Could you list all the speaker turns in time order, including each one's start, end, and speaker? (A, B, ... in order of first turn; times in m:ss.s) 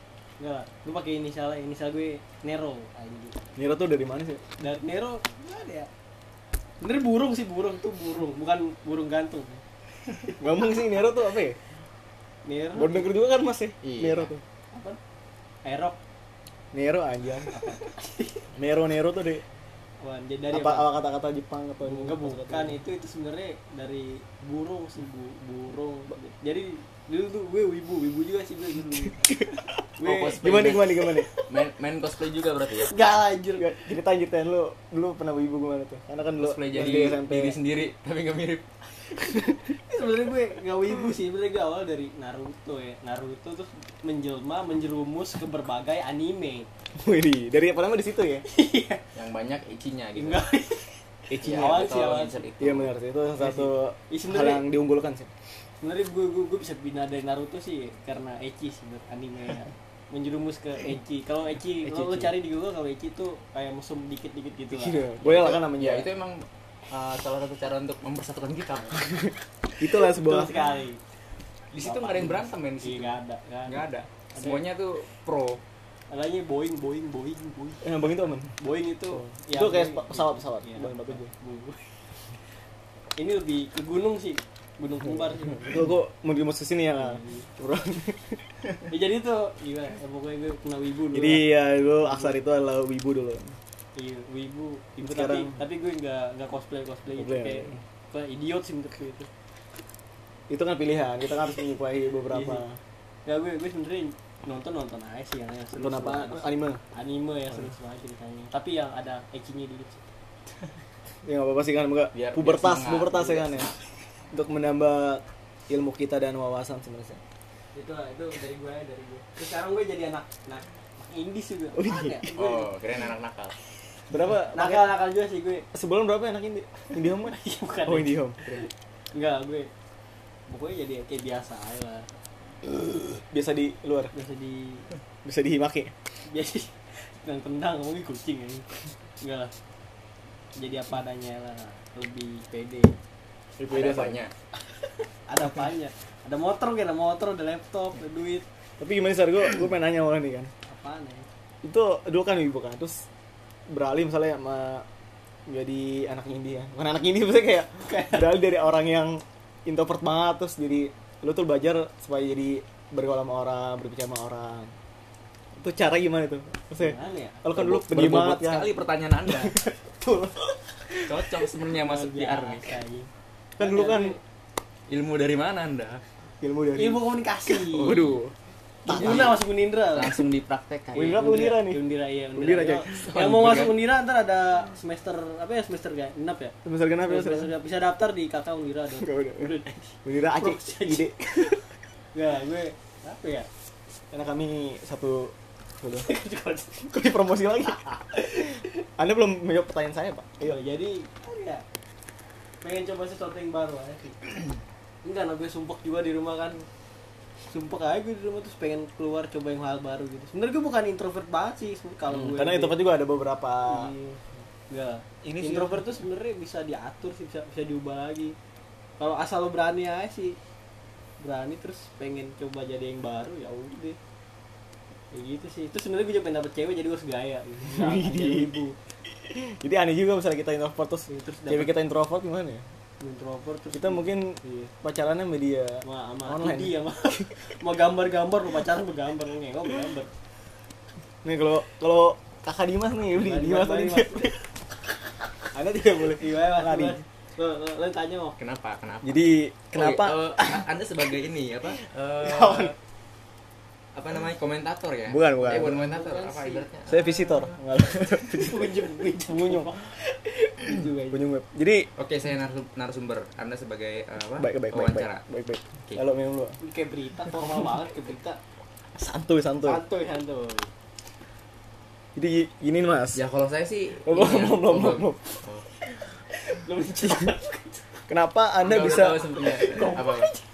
0:00.4-0:03.4 A
0:03.6-0:04.4 B
0:04.6-0:05.9 A
0:06.8-0:09.6 A
0:10.4-0:11.6 B
0:12.4-0:13.1 A
0:12.7-0:14.4 B
0:13.8-0:14.3 C
0:14.7-0:15.0 A
0:15.6-0:16.0 A
0:16.7-0:17.5 B
0:17.5-0:18.5 A
0:18.6-0:19.4 B
0:20.0-0:20.9 A
0:20.5-0:22.8 B
0:21.8-0:29.4 A
0:30.0-0:31.5 A
0:30.0-0:33.0 C
0:30.3-0:31.3 B
0:32.8-0:33.9 A
0:33.6-0:37.6 B
0:36.4-0:38.6 C
0:39.3-0:46.7 A
0:47.0-0:48.5 B
0:48.5-0:49.0 A
0:49.1-0:50.5 C
0:50.2-0:52.4 A
0:51.3-0:51.9 B
0:51.3-0:52.9 C
0:52.6-0:55.3 B
0:53.4-0:54.7 A
0:55.8-1:05.5 A
1:01.8-1:02.4 B
1:04.7-1:06.1 B
1:05.4-1:09.3 C
1:09.8-1:10.5 B
1:09.8-1:11.0 A
1:11.7-1:15.6 C
1:11.8-1:14.6 A
1:16.1-1:17.8 A
1:17.8-1:18.5 B
1:18.6-1:22.0 A
1:19.2-1:21.3 B
1:23.2-1:25.8 A
1:25.6-1:28.5 B
1:27.0-1:27.5 A
1:28.9-1:32.4 A
1:31.1-1:33.6 B
1:34.0-1:39.3 A
1:35.0-1:35.6 B
1:37.2-1:37.8 B
1:40.5-1:42.8 B
1:42.3-1:42.6 A
1:43.2-1:50.1 A
1:45.7-1:46.8 B
1:51.2-1:53.7 B
1:52.1-1:53.8 C
1:54.3-1:57.2 B
1:57.7-2:02.3 A
2:01.8-2:02.6 B
2:02.3-2:03.5 C
2:04.1-2:05.0 B
2:04.5-2:05.7 A
2:05.7-2:08.6 B
2:07.1-2:09.7 A
2:10.5-2:12.1 A
2:13.3-2:14.1 B
2:14.1-2:14.9 A
2:15.2-2:15.9 B
2:16.2-2:19.5 A
2:20.6-2:23.0 A
2:23.6-2:24.2 B
2:23.7-2:24.3 C
2:25.3-2:28.5 A
2:28.8-2:30.5 B
2:30.7-2:31.3 A
2:31.6-2:33.0 B
2:33.7-2:34.8 B
2:35.5-2:44.7 B
2:37.8-2:38.3 A
2:45.6-2:51.4 B
2:46.8-2:47.4 A
2:47.5-2:49.6 C
2:51.1-2:52.7 C
2:51.7-2:54.2 A
2:53.6-2:54.2 B
2:54.9-2:56.0 C
2:56.4-2:57.0 B
2:56.8-2:58.1 A
2:57.5-2:58.3 C
2:58.8-2:59.4 B
2:58.9-3:00.2 A
2:58.9-3:01.2 C
3:00.9-3:01.8 B
3:00.9-3:11.5 A
3:02.3-3:03.1 B
3:03.0-3:03.8 C
3:06.6-3:07.5 B
3:09.0-3:09.5 B
3:10.0-3:11.6 B
3:12.1-3:13.5 A
3:14.1-3:16.1 B
3:15.9-3:17.1 A
3:16.9-3:20.6 B
3:17.7-3:18.6 A
3:20.4-3:21.6 A
3:22.6-3:24.2 A
3:25.0-3:26.7 A
3:27.5-3:32.9 A
3:32.1-3:33.9 B
3:33.7-3:38.4 A
3:35.2-3:35.9 B
3:39.0-3:40.4 A
3:41.2-3:44.0 A
3:45.1-3:48.8 A
3:47.7-3:52.6 B
3:51.1-3:51.8 A
3:53.0-3:54.7 A
3:53.7-3:57.3 B
3:55.8-4:00.1 A
4:01.2-4:04.4 B
4:03.1-4:04.4 A
4:05.5-4:07.0 B
4:05.8-4:08.4 A
4:08.4-4:12.8 C
4:09.0-4:10.6 B
4:12.2-4:12.7 B
4:13.9-4:17.6 C
4:15.1-4:15.9 B
4:15.8-4:16.7 A
4:16.9-4:19.9 B
4:18.2-4:21.2 A
4:21.1-4:21.9 B
4:22.0-4:25.2 C
4:24.4-4:26.6 B
4:26.6-4:28.4 A
4:29.0-4:29.8 B
4:29.6-4:30.7 A
4:32.2-4:33.2 B
4:33.1-4:35.7 C
4:34.0-4:35.4 B
4:36.3-4:37.9 A
4:38.1-4:39.8 B
4:38.6-4:40.4 C
4:39.3-4:40.4 A